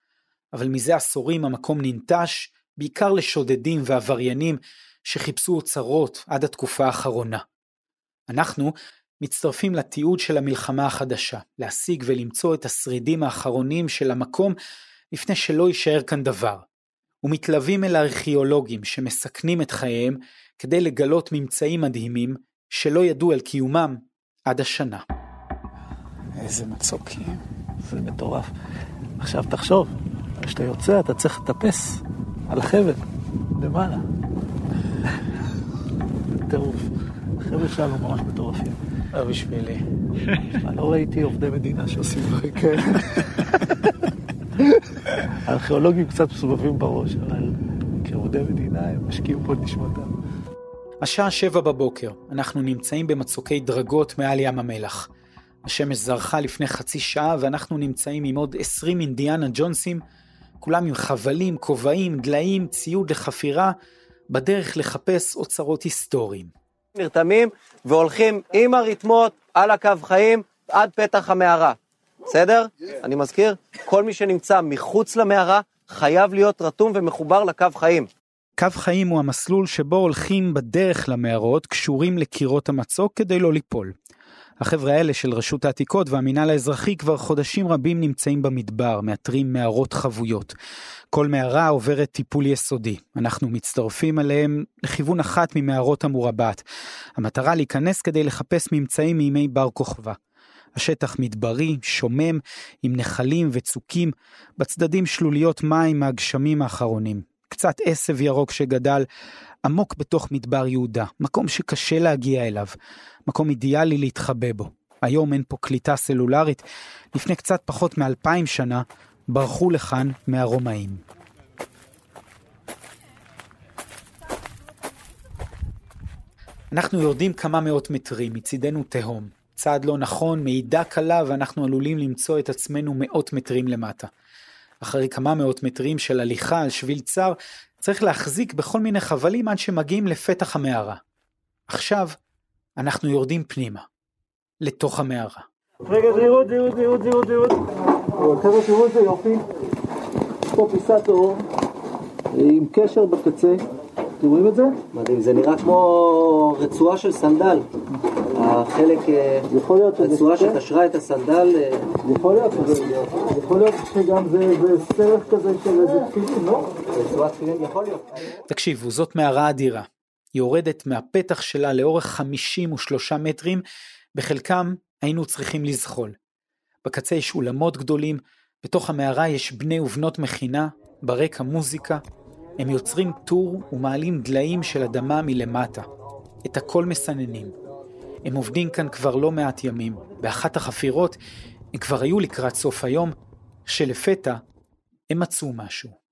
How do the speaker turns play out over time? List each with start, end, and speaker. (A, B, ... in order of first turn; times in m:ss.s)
0:00.5-0:07.4 A
0:08.3-0:14.5 A
0:15.1-0:16.6 A
0:17.2-0:25.0 A
0:26.4-0:27.4 A
0:27.8-0:28.5 B
0:29.2-0:29.9 B
0:30.4-0:33.0 B
0:33.6-0:34.0 B
0:36.3-0:38.8 B
0:39.1-0:39.8 A
0:40.5-0:43.6 B
0:45.4-0:50.1 B
0:51.0-0:55.1 A
0:55.6-1:00.0 A
1:00.6-1:03.7 A
1:04.3-1:06.5 A
1:06.9-1:18.1 C
1:18.6-1:23.9 A
1:24.6-1:30.5 A
1:31.1-1:36.6 A
1:37.2-1:40.2 A
1:40.8-1:49.0 A
1:49.6-1:52.7 A
1:53.3-2:01.0 A
2:06.7-2:14.1 A
2:14.8-2:21.0 A
2:21.7-2:22.1 A
2:22.8-2:23.8 A
2:24.6-2:25.4 A
2:25.9-2:27.6 B
2:28.2-2:29.4 B
2:30.5-2:31.4 B
2:32.3-2:33.6 B
2:34.2-2:34.8 B
2:34.9-2:37.6 C
2:38.4-2:39.5 C
2:39.5-2:40.6 B
2:40.0-2:42.0 C
2:42.0-2:46.4 B
2:46.9-2:48.1 C
2:48.5-2:53.6 A
2:54.2-2:56.2 A
2:56.8-3:02.0 A
3:02.6-3:05.9 A
3:06.4-3:07.5 A
3:08.2-3:11.2 A
3:11.7-3:13.1 A
3:13.6-3:14.4 A
3:15.1-3:15.9 A